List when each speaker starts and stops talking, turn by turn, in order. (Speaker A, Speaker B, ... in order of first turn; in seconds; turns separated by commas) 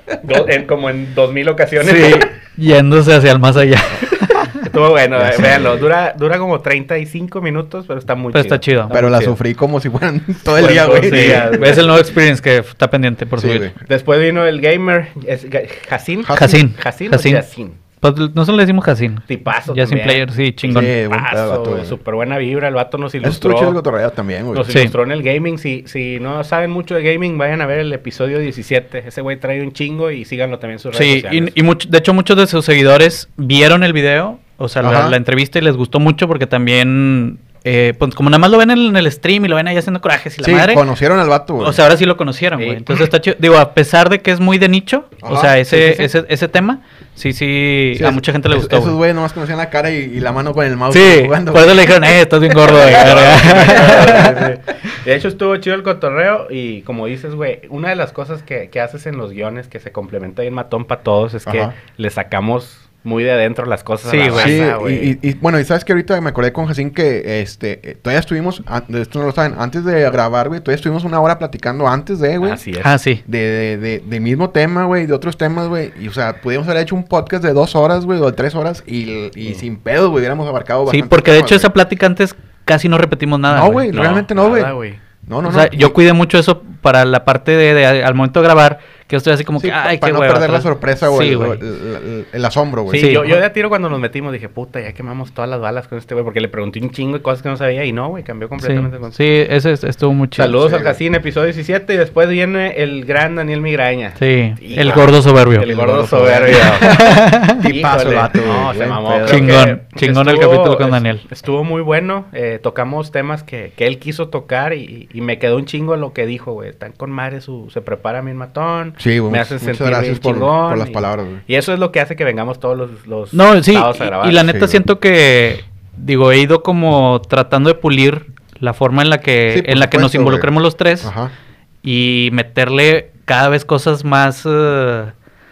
Speaker A: 0.2-2.3, Speaker B: 1.8-4.7, Speaker A: 4.6-9.4, Speaker C: 5.2-5.9, Speaker B: 8.3-8.9, Speaker C: 8.9-11.8, Speaker A: 10.5-11.9, Speaker B: 11.0-13.7, Speaker C: 13.4-13.7, Speaker A: 13.8-17.8, Speaker C: 16.2-16.6, Speaker B: 16.3-17.4, Speaker B: 18.0-20.9, Speaker A: 19.3-23.8, Speaker C: 20.6-21.9, Speaker C: 23.2-24.7, Speaker A: 24.5-31.5, Speaker B: 30.9-40.8, Speaker C: 34.8-35.2, Speaker C: 40.4-41.8, Speaker B: 41.6-49.0, Speaker A: 42.6-43.0, Speaker C: 45.2-46.1, Speaker C: 47.9-54.4, Speaker B: 50.9-54.4, Speaker A: 52.6-65.1, Speaker C: 61.5-61.7, Speaker B: 64.0-64.6, Speaker C: 64.3-72.6, Speaker A: 72.4-72.9, Speaker B: 72.8-73.2, Speaker C: 73.2-81.7, Speaker B: 80.9-83.9, Speaker C: 83.5-84.7, Speaker A: 83.9-85.0, Speaker C: 85.2-86.0, Speaker B: 85.4-91.6, Speaker C: 89.6-93.3, Speaker A: 92.9-99.2, Speaker B: 92.9-93.4, Speaker B: 98.6-100.6, Speaker A: 100.3-124.4, Speaker C: 100.6-101.0, Speaker B: 104.2-105.7, Speaker C: 105.6-109.6, Speaker B: 106.6-107.6, Speaker B: 109.2-111.2, Speaker C: 119.0-121.4, Speaker B: 123.3-131.1, Speaker C: 124.4-124.8, Speaker C: 129.5-130.5, Speaker C: 131.0-131.3, Speaker B: 131.8-135.1